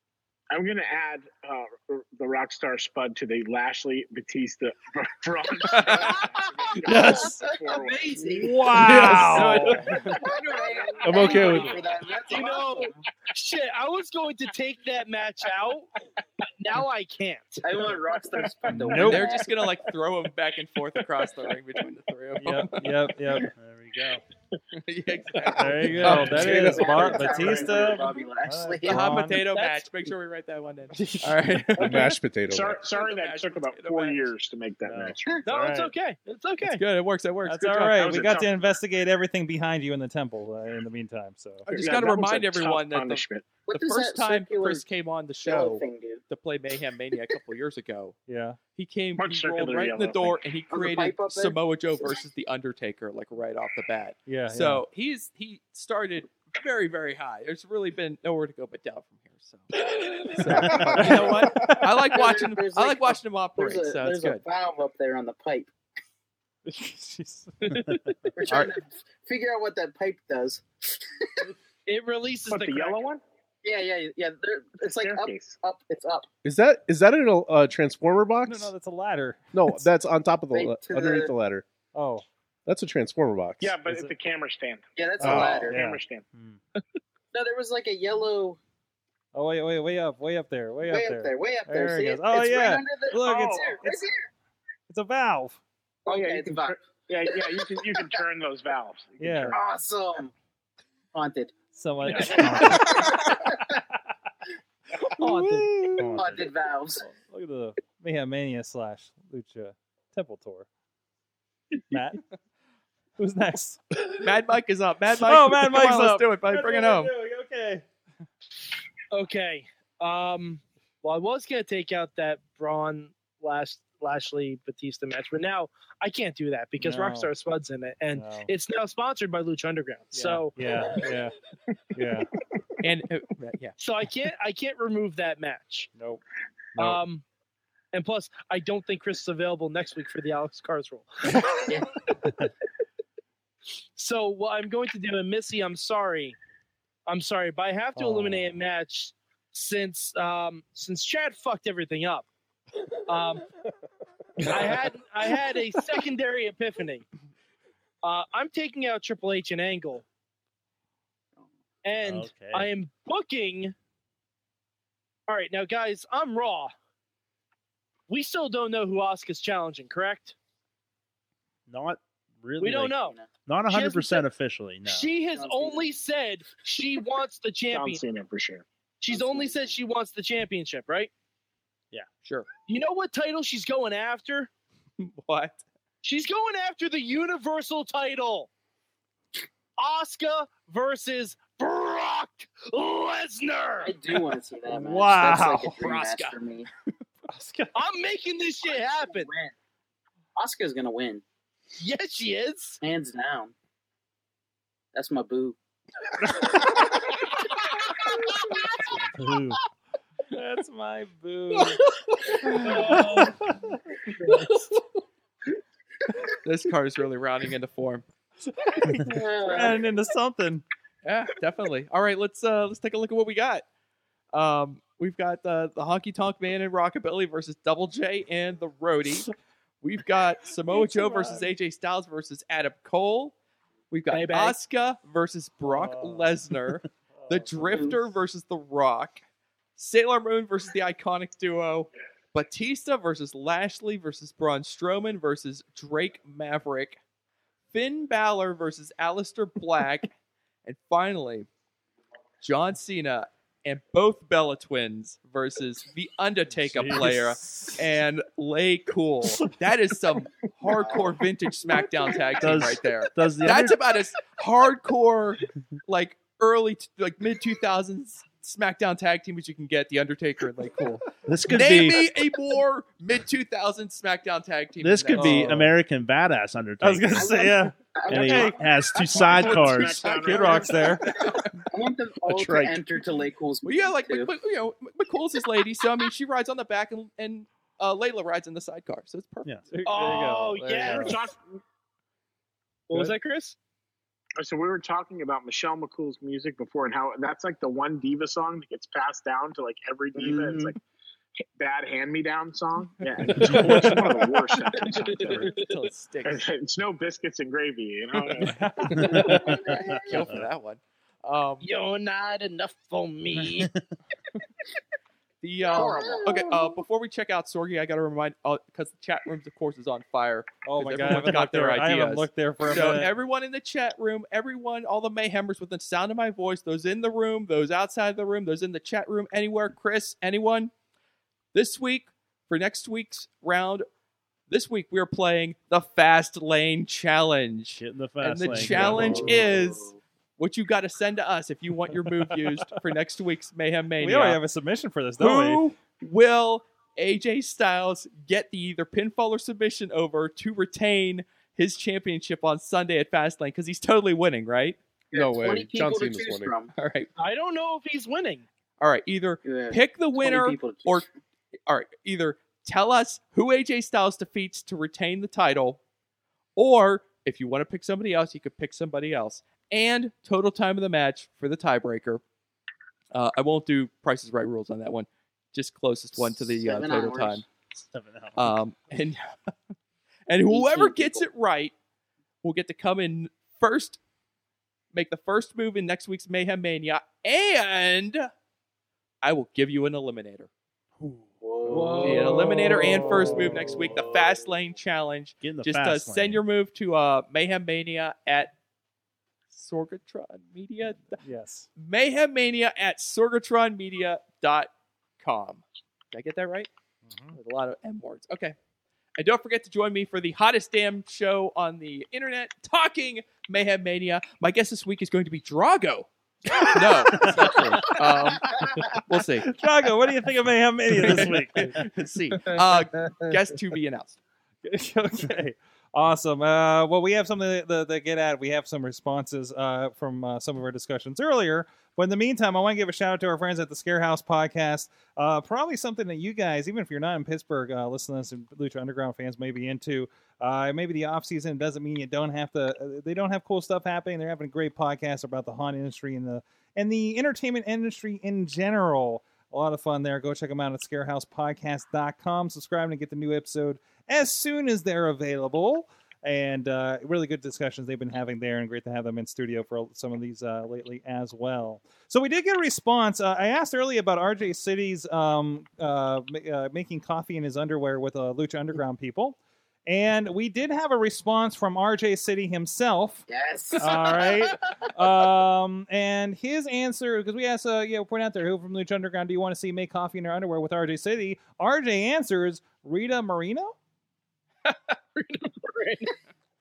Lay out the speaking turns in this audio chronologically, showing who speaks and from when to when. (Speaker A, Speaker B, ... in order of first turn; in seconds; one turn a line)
Speaker A: 0.5-8.4
Speaker B: 5.7-6.2
Speaker C: 6.8-9.1
Speaker D: 6.8-7.3
Speaker D: 8.3-9.9
Speaker E: 8.8-9.5
Speaker B: 8.9-10.2
Speaker C: 10.1-13.0
Speaker A: 10.8-11.7
Speaker E: 11.0-11.8
Speaker F: 11.1-11.7
Speaker F: 12.3-15.9
Speaker F: 16.6-17.6
Speaker C: 17.6-19.7
Speaker A: 18.4-19.1
Speaker D: 18.7-19.3
Speaker B: 19.0-22.9
Speaker D: 22.4-23.5
Speaker G: 23.4-24.2
Speaker B: 24.7-26.7
Speaker D: 25.6-29.4
Speaker E: 26.0-26.9
Speaker C: 26.4-29.3
Speaker A: 26.5-28.1
Speaker B: 28.9-32.1
Speaker F: 29.5-30.1
Speaker D: 31.0-31.4
Speaker E: 31.8-32.8
Speaker A: 31.8-35.2
Speaker B: 32.9-34.3
Speaker G: 34.9-35.2
Speaker F: 35.5-36.8
Speaker D: 35.5-35.9
Speaker B: 36.6-38.1
Speaker D: 37.5-41.7
Speaker A: 37.9-38.6
Speaker B: 41.7-48.2
Speaker A: 41.7-43.5
Speaker C: 43.7-44.9
Speaker C: 45.4-46.2
Speaker D: 48.3-48.6
Speaker B: 48.8-64.4
Speaker A: 49.2-50.4
Speaker C: 50.7-52.2
Speaker D: 54.3-54.8
Speaker C: 60.6-65.7
Speaker D: 66.7-68.0
Speaker C: 68.4-71.5
Speaker B: 68.5-68.7
Speaker F: 71.9-73.0
Speaker A: 72.5-73.2
Speaker C: 73.6-76.3
Speaker A: 75.0-75.5
Speaker E: 76.4-78.7
Speaker D: 78.5-79.8
Speaker E: 79.5-81.7
Speaker C: 80.5-81.3
Speaker D: 81.9-82.2
Speaker E: 82.7-83.8
Speaker A: 83.6-86.3
Speaker D: 83.9-84.1
Speaker C: 85.0-85.8
Speaker E: 85.2-85.7
Speaker D: 85.7-86.0
Speaker G: 86.3-86.6
Speaker C: 87.3-88.6
Speaker D: 89.3-94.0
Speaker C: 90.8-94.3
Speaker A: 93.2-93.8
Speaker D: 94.9-95.6
Speaker C: 96.1-98.2
Speaker A: 96.1-99.6
Speaker D: 99.2-99.5
Speaker C: 99.5-100.3
Speaker C: 101.1-101.5
Speaker D: 101.7-103.1
Speaker C: 102.1-103.7
Speaker A: 102.1-102.5
Speaker F: 105.2-106.0
Speaker D: 105.2-106.2
Speaker G: 106.0-106.4
Speaker C: 106.2-107.0
Speaker D: 107.0-110.7
Speaker D: 111.9-112.2
Speaker D: 113.2-114.3
Speaker B: 114.2-117.1
Speaker D: 115.2-117.8
Speaker F: 119.1-130.6
Speaker D: 126.8-127.3
Speaker D: 128.1-128.5
Speaker D: 130.1-131.3
Speaker D: 131.9-132.3
Speaker B: 132.8-133.8
Speaker F: 133.8-135.9
Speaker D: 136.0-136.2
Speaker D: 136.8-137.0
Speaker F: 136.8-137.2
Speaker F: 137.9-141.8
Speaker F: 144.0-146.4
Speaker F: 147.1-152.3
Speaker D: 148.0-148.6
Speaker F: 153.1-153.5
Speaker F: 154.5-157.1
Speaker F: 158.0-160.1
Speaker F: 161.8-163.7
Speaker G: 162.0-162.7
Speaker F: 165.3-166.7
Speaker F: 168.1-170.3
Speaker G: 171.7-175.1
Speaker F: 172.6-173.2
Speaker C: 173.0-173.3
Speaker F: 173.7-174.3
Speaker F: 174.8-178.0
Speaker C: 175.3-175.9
Speaker A: 177.7-178.7
Speaker F: 179.0-181.1
Speaker C: 179.1-179.8
Speaker F: 182.7-184.5
Speaker B: 185.0-185.6
Speaker F: 186.0-188.5
Speaker F: 189.8-194.0
Speaker C: 193.8-196.7
Speaker D: 194.7-196.3
Speaker D: 197.3-197.8
Speaker F: 197.8-199.3
Speaker C: 198.7-199.5
Speaker C: 200.3-201.2
Speaker F: 201.8-202.8
Speaker C: 202.8-203.5
Speaker C: 204.9-205.6
Speaker G: 209.0-209.6
Speaker D: 210.3-211.9
Speaker B: 212.4-212.7
Speaker D: 212.5-213.8
Speaker F: 212.6-213.5
Speaker B: 216.4-218.1
Speaker D: 218.6-220.6
Speaker C: 219.0-219.8
Speaker B: 221.0-223.7
Speaker B: 224.3-229.3
Speaker B: 229.8-233.3
Speaker D: 230.7-231.5
Speaker B: 233.9-239.2
Speaker F: 234.1-234.6
Speaker D: 235.7-236.5
Speaker D: 237.1-237.9
Speaker C: 237.7-238.0
Speaker B: 239.8-247.0
Speaker B: 247.7-250.1
Speaker B: 250.7-251.5
Speaker B: 252.4-275.6
Speaker D: 256.6-257.9
Speaker G: 256.7-257.1
Speaker C: 260.7-261.0
Speaker G: 262.4-263.8
Speaker G: 271.2-272.1
Speaker G: 274.8-280.7
Speaker D: 275.1-275.7
Speaker D: 276.8-278.6
Speaker C: 277.1-278.8
Speaker A: 279.1-281.2
Speaker D: 280.1-281.1
Speaker B: 281.1-281.5
Speaker C: 281.7-284.3
Speaker G: 282.3-282.8
Speaker B: 283.6-289.6
Speaker D: 289.7-291.2
Speaker F: 289.9-291.2
Speaker A: 290.8-291.4
Speaker F: 292.9-293.6
Speaker A: 294.4-300.8
Speaker C: 300.2-300.7
Speaker A: 301.6-305.6
Speaker F: 303.5-304.0
Speaker F: 304.7-305.8
Speaker B: 305.4-306.5
Speaker A: 306.2-309.1
Speaker D: 308.4-309.2
Speaker C: 308.9-310.3
Speaker G: 308.9-310.5
Speaker B: 310.0-311.7
Speaker F: 311.6-313.7
Speaker G: 313.4-313.9
Speaker B: 315.4-330.7
Speaker C: 315.7-316.8
Speaker A: 315.7-316.3
Speaker D: 320.6-323.1
Speaker G: 321.1-321.4
Speaker B: 331.5-333.9
Speaker B: 334.5-344.4
Speaker G: 337.8-339.4
Speaker C: 338.7-340.0
Speaker D: 342.1-342.7
Speaker D: 344.0-345.6
Speaker B: 345.2-354.8
Speaker C: 355.1-356.7
Speaker E: 355.1-356.6
Speaker B: 356.7-357.1
Speaker F: 357.2-358.5
Speaker B: 358.8-361.1
Speaker C: 359.4-361.1
Speaker B: 361.7-365.8
Speaker B: 366.6-372.2
Speaker B: 373.1-377.5
Speaker C: 376.2-377.4
Speaker G: 377.8-378.6
Speaker B: 378.4-379.5
Speaker B: 380.3-381.7
Speaker C: 380.5-381.3
Speaker B: 382.4-384.0
Speaker B: 384.9-388.3
Speaker B: 389.2-390.5
Speaker G: 391.0-391.9
Speaker C: 391.4-392.8
Speaker B: 392.0-398.5
Speaker D: 393.1-393.7
Speaker G: 393.1-393.7
Speaker G: 395.4-396.4
Speaker B: 399.5-401.2
Speaker D: 401.2-401.7
Speaker B: 401.8-406.7
Speaker D: 407.1-407.4
Speaker B: 407.3-408.6
Speaker B: 409.2-416.1
Speaker D: 416.6-417.5
Speaker B: 416.7-419.5
Speaker G: 417.1-417.9
Speaker D: 419.4-421.8
Speaker B: 421.0-424.2
Speaker F: 422.4-423.3
Speaker D: 424.6-473.3
Speaker C: 473.3-474.6
Speaker D: 473.8-483.8
Speaker F: 484.7-486.1